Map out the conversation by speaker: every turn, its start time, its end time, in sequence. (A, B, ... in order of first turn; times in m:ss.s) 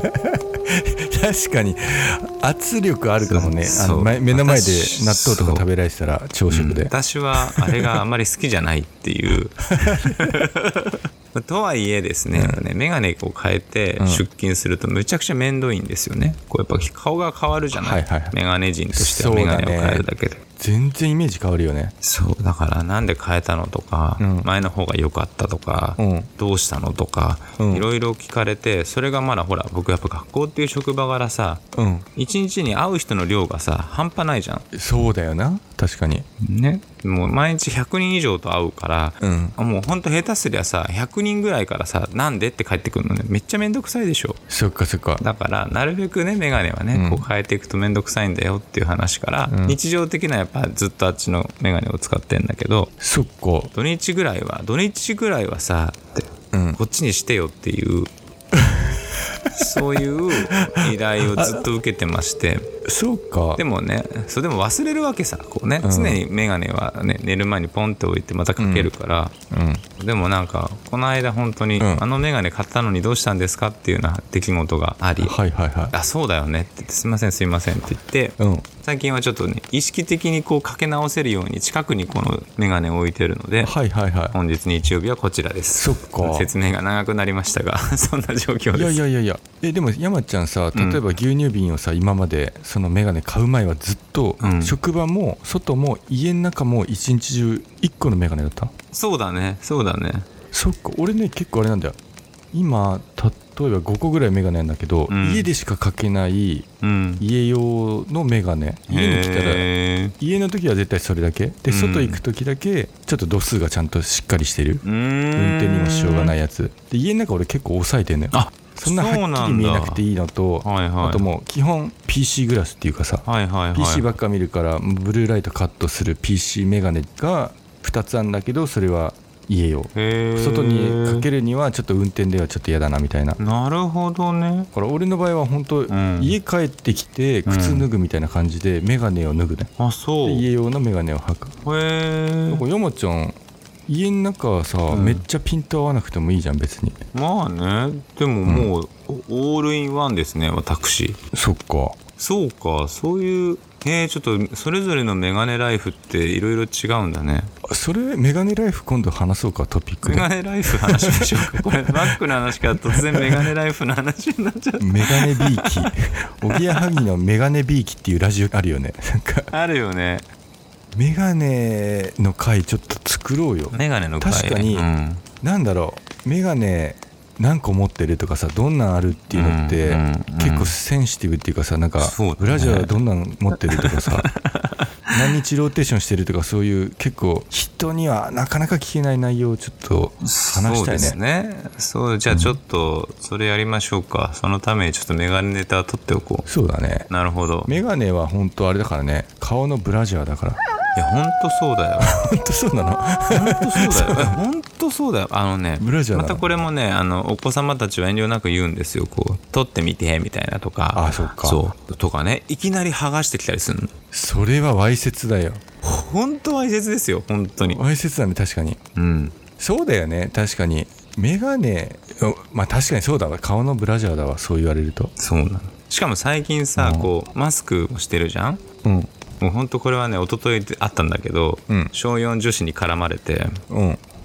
0:00.7-0:08.0 A
0:03.2-0:05.7 B
0:06.5-0:20.4 B
0:09.9-0:10.3 A
0:12.3-0:12.6 A
0:14.0-0:14.2 A
0:17.7-0:18.4 A
0:18.9-0:20.1 A
0:20.6-0:21.9 A
0:22.0-0:31.6 B
0:24.2-0:24.5 A
0:26.0-0:26.3 A
0:27.6-0:27.9 A
0:31.8-0:32.1 A
0:32.2-0:34.7 B
0:34.7-0:36.2 A
0:36.4-0:44.4 B
0:39.2-0:39.6 A
0:44.5-0:45.2 A
0:45.2-0:52.9 B
0:46.9-0:47.3 A
0:49.5-0:49.8 A
0:53.0-0:53.7 A
0:53.7-0:58.1 B
0:56.5-0:56.8 A
0:59.5-1:02.7 B
1:00.4-1:01.7 A
1:02.9-1:03.6 A
1:03.6-1:09.3 B
1:05.8-1:06.2 A
1:08.6-1:08.9 A
1:09.5-1:09.8 A
1:10.0-1:15.4 B
1:15.2-1:15.9 A
1:15.9-1:23.7 B
1:18.4-1:18.7 A
1:23.6-1:24.4 A
1:24.3-1:29.0 B
1:25.8-1:26.5 A
1:28.7-1:38.7 A
1:30.7-1:31.0 B
1:34.4-1:34.8 B
1:38.9-1:40.3 B
1:40.5-1:42.0 A
1:42.5-1:46.7 A
1:45.1-1:45.5 B
1:46.8-1:47.2 B
1:47.2-1:49.7 A
1:48.9-1:50.1 B
1:50.2-1:54.8 A
1:51.7-1:52.2 B
1:54.8-1:56.4 B
1:55.4-2:13.4 A
1:58.3-2:00.0 B
2:00.6-2:01.3 B
2:03.2-2:04.2 B
2:09.9-2:11.3 B
2:13.4-2:14.7 B
2:14.7-2:19.7 A
2:15.9-2:16.4 B
2:17.4-2:17.9 B
2:19.8-2:20.5 B
2:20.2-2:21.6 A
2:21.6-2:22.6 B
2:22.5-2:23.4 A
2:23.9-2:27.0 A
2:24.9-2:25.2 B
2:27.1-2:31.2 B
2:28.5-2:28.7 A
2:31.3-2:32.0 A
2:32.2-2:37.5 B
2:37.7-2:40.3 A
2:40.0-2:45.9 B
2:40.8-2:42.2 A
2:43.2-2:43.5 A
2:44.8-2:49.5 A
2:46.4-2:46.9 B
2:49.5-2:50.2 B
2:50.9-2:54.9 A
2:53.7-2:55.2 B
2:55.4-3:04.3 A
2:59.3-3:00.7 B
3:02.0-3:02.9 B
3:03.8-3:04.8 B
3:05.1-3:11.2 A
3:10.2-3:16.5 B
3:12.3-3:12.6 A
3:16.5-3:17.1 A
3:17.1-3:17.8 B
3:17.6-3:20.6 A
3:21.0-3:22.2 B
3:22.0-3:24.4 A
3:23.3-3:33.9 B
3:25.8-3:26.5 A
3:30.9-3:31.6 A
3:34.1-3:35.6 A
3:35.8-3:37.8 B
3:37.6-3:38.8 A
3:39.0-3:39.4 B
3:39.6-3:45.1 A
3:45.2-3:48.6 B
3:46.8-3:47.1 A
3:49.4-3:53.6 B
3:53.7-3:54.0 A